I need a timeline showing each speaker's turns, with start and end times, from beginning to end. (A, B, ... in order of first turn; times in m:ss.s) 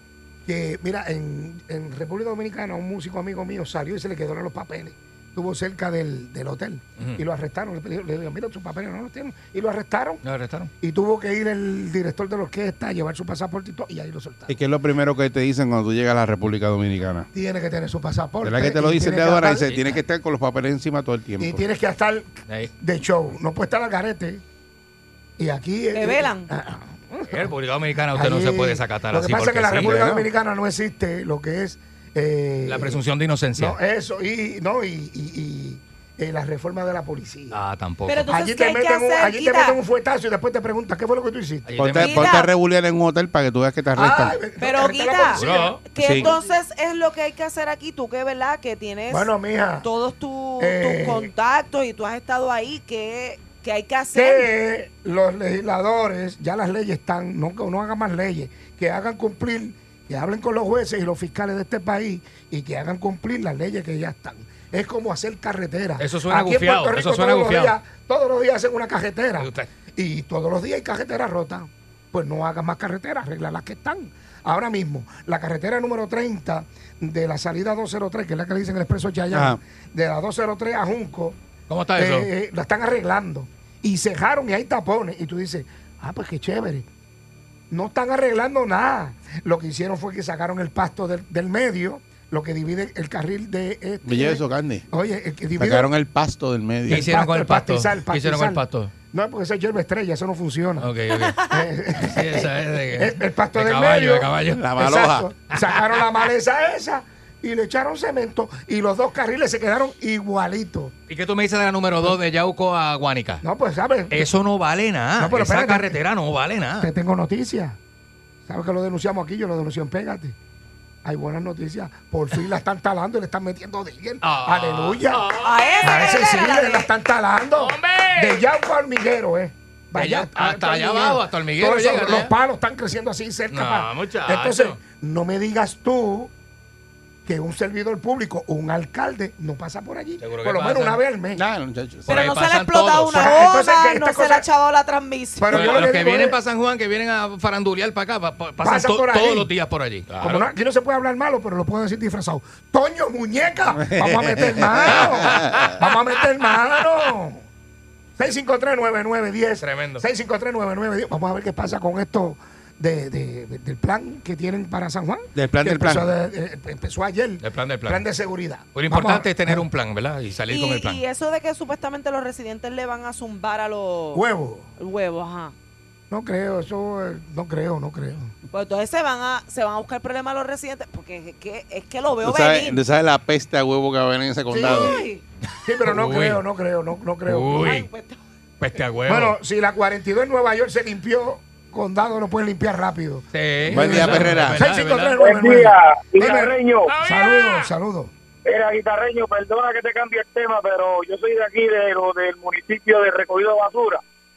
0:00.5-0:10.2 A
0:07.0-0:07.2 B
0:10.2-0:10.7 B
0:10.8-0:14.6 A
0:14.5-0:17.3 C
0:17.3-0:19.8 A
0:18.4-0:21.6 C
0:21.4-0:24.4 A
0:25.4-0:27.5 A
0:25.9-0:26.5 D
0:27.3-0:30.0 B
0:28.1-0:33.0 A
0:29.7-0:30.3 C
0:32.6-0:33.8 B
0:33.6-0:37.6 A
0:37.5-0:38.3 B
0:38.1-0:39.8 D
0:38.2-0:41.7 A
0:41.7-0:42.4 B
0:41.8-0:44.4 C
0:42.0-0:42.5 D
0:44.0-0:46.4 A
0:44.6-0:49.3 D
0:45.4-0:45.8 B
0:46.0-0:46.3 C
0:49.1-0:49.9 A
0:49.8-0:54.5 D
0:50.6-0:51.3 A
0:54.1-1:21.4 A
1:06.0-1:07.8 B
1:09.4-1:09.7 B
1:19.3-1:19.6 C
1:21.7-1:22.3 B
1:22.0-1:26.9 A
1:27.7-1:35.9 A
1:34.0-1:34.8 C
1:35.6-1:37.1 C
1:36.9-1:50.9 A
1:36.9-1:38.9 B
1:40.8-1:44.7 B
1:44.5-1:45.3 C
1:45.5-1:46.3 B
1:51.1-1:53.4 B
1:53.4-1:54.3 A
1:54.1-1:56.9 B
1:55.2-1:56.0 A
1:56.8-1:57.8 A
1:58.5-2:00.4 A
2:01.0-2:16.3 A
2:04.2-2:06.2 B
2:05.4-2:06.9 D
2:07.5-2:08.4 B
2:10.0-2:12.3 B
2:13.5-2:14.8 B
2:17.2-2:21.4 A
2:20.2-2:21.0 B
2:21.3-2:22.2 C
2:22.1-2:23.5 B
2:22.1-2:25.8 D
2:23.1-2:24.5 A
2:25.4-2:26.4 A
2:25.5-2:30.5 B
2:28.6-2:29.5 A
2:30.2-2:37.4 A
2:33.8-2:35.8 C
2:34.9-2:35.9 B
2:38.2-2:49.6 A
2:39.6-2:40.0 B
2:45.4-2:46.1 C
2:47.4-2:48.0 B
2:48.8-2:51.0 B
2:50.5-2:54.2 D
2:54.1-2:54.7 A
2:54.8-2:55.5 D
2:56.1-2:58.3 A
2:58.5-3:02.8 D
3:02.2-3:05.0 C
3:04.5-3:05.1 A
3:04.6-3:05.2 D
3:05.6-3:07.8 A
3:05.8-3:06.4 B
3:07.2-3:07.9 B
3:07.5-3:08.2 D
3:08.6-3:09.4 B
3:09.1-3:18.1 A
3:13.3-3:15.2 B
3:13.7-3:14.6 C
3:15.2-3:16.9 E
3:16.9-3:17.7 B
3:18.4-3:24.0 E